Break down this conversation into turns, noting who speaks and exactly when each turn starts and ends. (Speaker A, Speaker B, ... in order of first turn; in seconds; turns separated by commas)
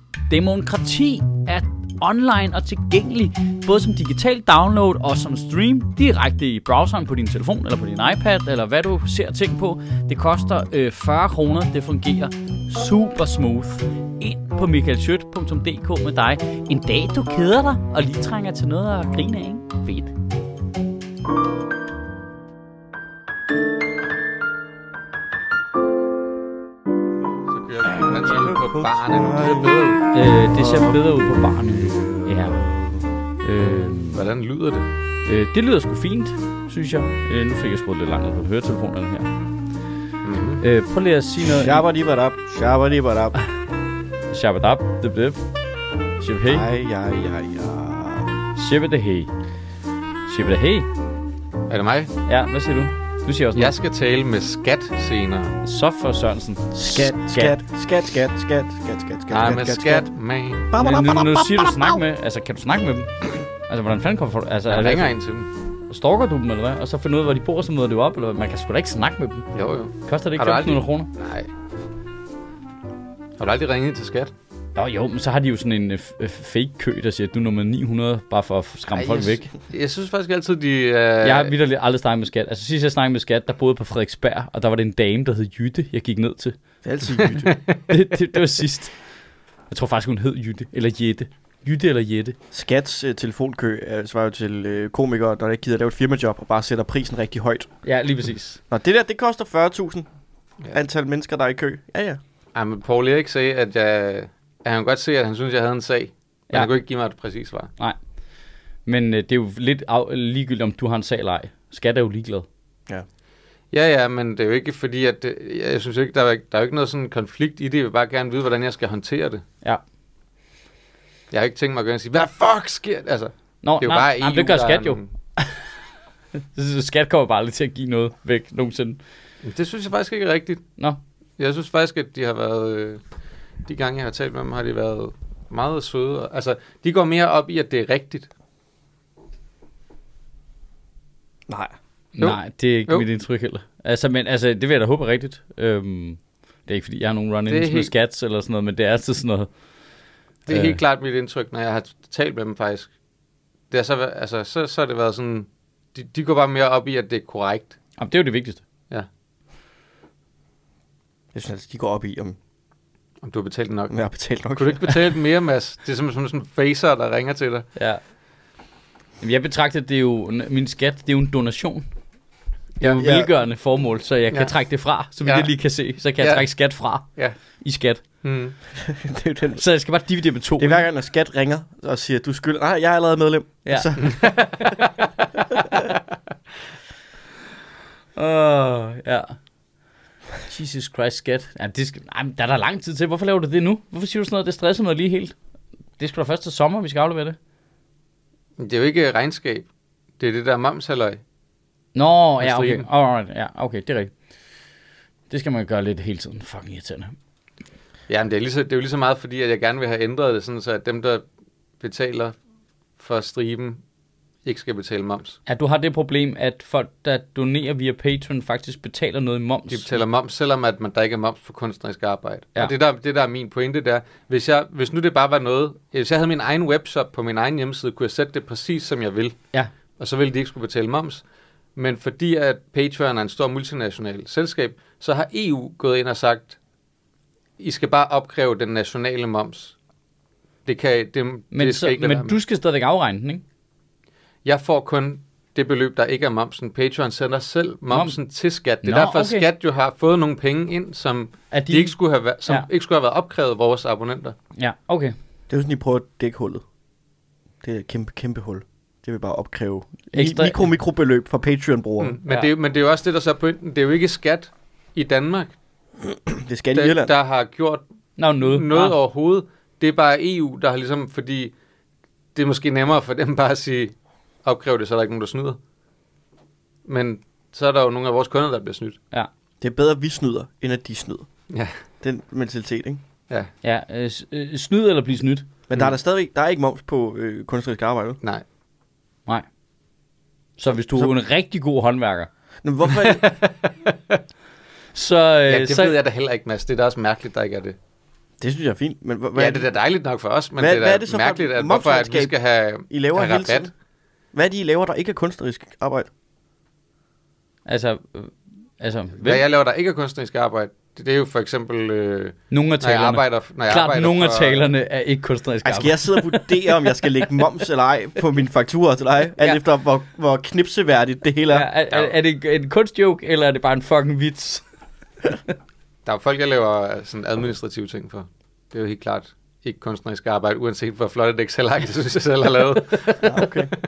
Speaker A: 0.3-20.1, Speaker B: 27.5-30.0, Speaker C: 28.3-29.7, Speaker A: 30.1-32.7, Speaker C: 30.5-33.0, Speaker A: 33.4-34.2, Speaker B: 34.0-34.9, Speaker A: 35.2-39.3, Speaker B: 40.2-40.6, Speaker A: 40.6-41.8, Speaker C: 41.4-43.3, Speaker A: 44.3-45.4, Speaker A: 46.2-46.6, Speaker C: 46.5-48.3, Speaker A: 48.5-49.3, Speaker A: 50.2-50.9, Speaker B: 51.7-52.1, Speaker A: 52.3-53.7, Speaker B: 53.5-55.6, Speaker A: 55.6-57.6, Speaker C: 56.7-60.1, Speaker B: 59.3-60.6, Speaker C: 60.7-62.0, Speaker A: 60.8-65.1, Speaker B: 64.7-65.5, Speaker A: 65.9-69.5, Speaker B: 69.5-71.5, Speaker A: 70.0-71.1, Speaker B: 73.4-74.3, Speaker A: 74.8-79.5, Speaker B: 78.9-81.5, Speaker A: 81.2-86.5, Speaker C: 86.8-87.5, Speaker B: 87.2-87.6, Speaker A: 87.9-89.0, Speaker A: 89.7-92.3, Speaker C: 92.5-97.7, Speaker A: 97.8-98.6, Speaker C: 98.7-100.1, Speaker C: 100.7-102.2, Speaker B: 102.5-107.7, Speaker A: 108.8-112.5, Speaker B: 113.7-119.4, Speaker B: 121.3-125.0, Speaker A: 123.6-125.7, Speaker A: 126.5-129.0, Speaker B: 129.4-130.6, Speaker B: 131.4-133.0, Speaker B: 133.7-138.3, Speaker C: 141.5-141.7, Speaker A: 142.2-149.5, Speaker B: 142.2-143.0, Speaker B: 147.5-147.9, Speaker B: 150.5-152.9, Speaker A: 150.5-150.8, Speaker B: 153.7-157.8, Speaker A: 158.0-158.6, Speaker C: 161.3-162.4, Speaker B: 163.2-164.0, Speaker C: 163.9-165.0, Speaker B: 164.5-167.7, Speaker A: 167.8-168.0, Speaker A: 169.2-171.8, Speaker B: 172.8-173.0, Speaker A: 172.8-177.0, Speaker C: 173.0-173.3, Speaker B: 175.2-175.5, Speaker A: 177.6-178.0, Speaker B: 178.2-178.6, Speaker C: 178.8-179.6, Speaker A: 179.6-180.8, Speaker C: 180.6-184.2, Speaker A: 183.7-184.7, Speaker B: 184.0-184.9, Speaker A: 188.2-189.3, Speaker A: 190.5-195.3, Speaker A: 196.0-197.4, Speaker B: 198.6-199.7, Speaker B: 200.2-201.2, Speaker A: 201.9-204.1, Speaker B: 202.4-202.9, Speaker A: 205.3-207.1, Speaker B: 208.1-211.2, Speaker B: 211.8-212.3, Speaker B: 213.0-213.8, Speaker B: 214.4-215.4, Speaker A: 215.5-219.9, Speaker B: 219.7-229.4, Speaker B: 230.0-231.2, Speaker B: 231.8-236.6, Speaker B: 237.6-239.7, Speaker B: 240.7-242.3, Speaker A: 241.5-243.4, Speaker B: 244.4-254.3, Speaker A: 247.9-248.2, Speaker A: 248.8-249.4, Speaker A: 251.5-251.9, Speaker A: 254.6-255.1, Speaker C: 255.5-256.6, Speaker C: 257.6-262.1, Speaker A: 260.1-260.6, Speaker B: 262.0-265.5, Speaker C: 266.1-267.1, Speaker B: 266.7-267.8, Speaker A: 268.2-268.9, Speaker B: 268.4-271.5, Speaker B: 272.3-275.6, Speaker B: 276.9-279.0, Speaker C: 279.6-281.3, Speaker C: 282.0-283.0, Speaker A: 283.6-285.5, Speaker C: 285.7-288.2, Speaker A: 290.6-292.3, Speaker C: 292.6-293.3, Speaker B: 292.9-294.2, Speaker A: 294.9-295.9, Speaker B: 295.5-297.8, Speaker C: 298.4-299.6, Speaker B: 299.4-303.7, Speaker C: 300.6-302.3, Speaker C: 302.9-303.7, Speaker C: 304.3-306.1, Speaker A: 307.7-309.4, Speaker B: 309.2-314.7, Speaker A: 312.5-316.5, Speaker C: 315.6-321.7, Speaker A: 321.5-324.6, Speaker B: 326.1-333.7, Speaker C: 333.2-333.7